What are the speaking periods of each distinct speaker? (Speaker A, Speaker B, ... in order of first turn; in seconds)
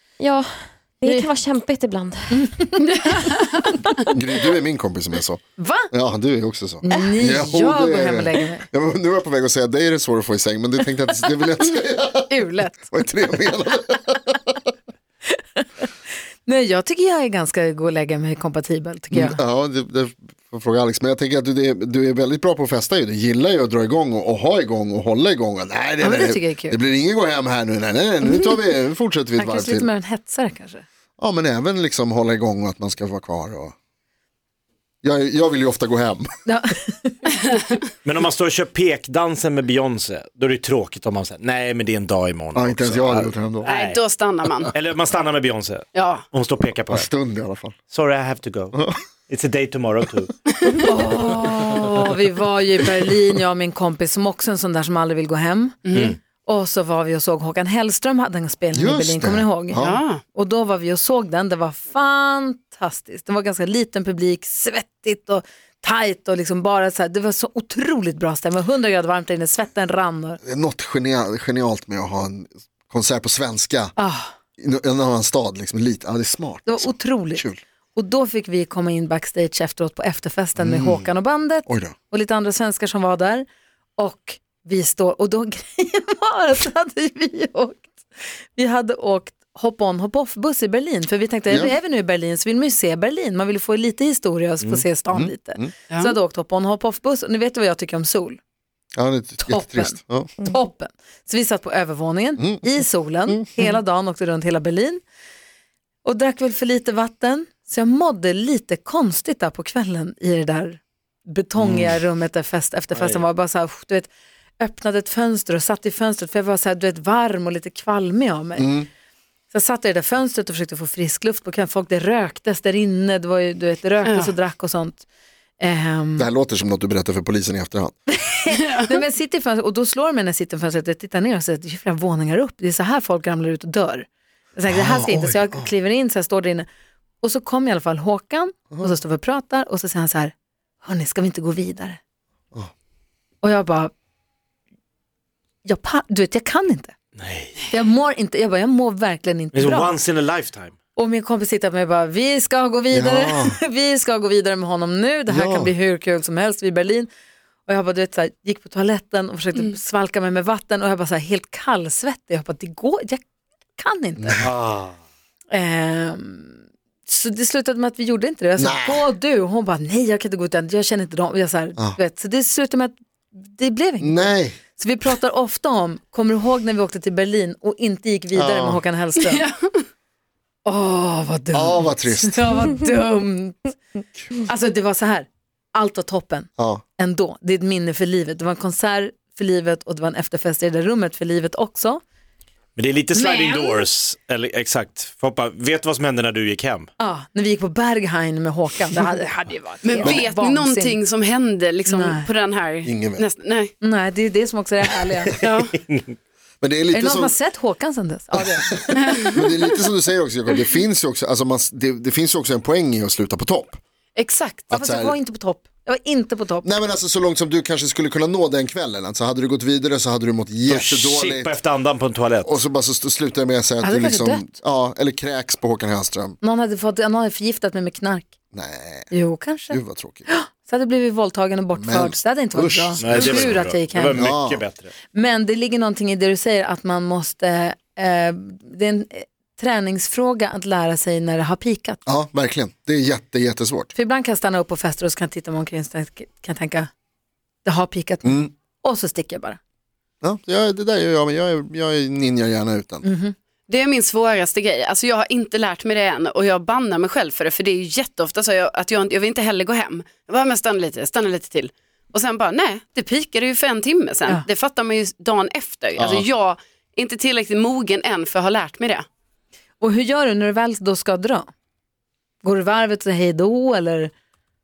Speaker A: 0.2-2.5
Speaker B: 1.1-1.3, 2.3-4.1, 5.6-5.9, 6.8-8.7, 12.3-12.9, 16.4-19.4, 26.0-26.8, 28.2-28.6, 29.4-30.9, 36.5-37.3, 50.7-59.8, 60.3-70.4, 74.0-74.3, 76.7-83.5, 84.0-87.9, 88.5-98.4, 99.4-105.0, 106.0-118.7, 119.5-125.0, 125.6-126.3, 128.1-136.7, 137.2-142.0, 143.4-143.9, 145.7-146.9, 147.7-150.0, 151.0-157.1, 157.7-163.2, 163.8-164.4, 165.5-179.5, 180.7-183.8, 184.3-192.0, 197.0-201.0, 201.8-202.3, 203.8-205.4, 206.9-209.3, 214.7-216.7, 223.8-224.4, 226.4-228.3, 229.1-234.3, 235.1-242.0, 243.9-246.9, 247.6-249.6, 253.0-253.3, 269.8-271.5, 272.4-274.1
Speaker C: 4.1-14.5, 19.1-29.9, 31.2-33.7, 35.0-36.3, 42.5-43.7, 46.9-47.8, 48.7-49.0, 58.7-60.0, 70.4-74.0, 74.6-77.6, 80.6-81.1, 81.7-82.0, 91.5-91.8, 95.1-95.7, 99.0-100.3, 102.4-102.7, 111.6-112.0, 118.6-118.9, 126.2-128.0, 134.7-135.7, 152.9-153.6, 155.3-155.7, 168.6-169.1, 174.0-174.6, 178.3-178.8, 181.5-182.6, 186.6-186.8, 202.8-203.3, 206.6-207.4, 208.4-213.8, 214.7-215.2, 216.6-221.6, 222.4-226.4, 228.5-229.1, 229.7-230.3, 231.8-234.6, 242.1-243.9, 248.2-248.5, 250.2-253.1
Speaker D: 38.0-44.0, 44.7-47.1, 47.9-50.3, 113.0-113.2, 147.2-147.6, 149.5-150.8, 164.4-165.0, 192.8-196.9, 205.3-206.2, 220.7-222.6, 233.0-234.9
Speaker E: 43.6-44.7, 46.0-46.2, 55.9-56.2, 59.8-60.2, 95.9-96.2, 124.0-124.3, 128.5-129.0, 179.2-179.8, 193.2-193.8, 199.8-203.7, 205.4-205.8, 209.0-209.3, 214.2-214.7, 253.7-269.1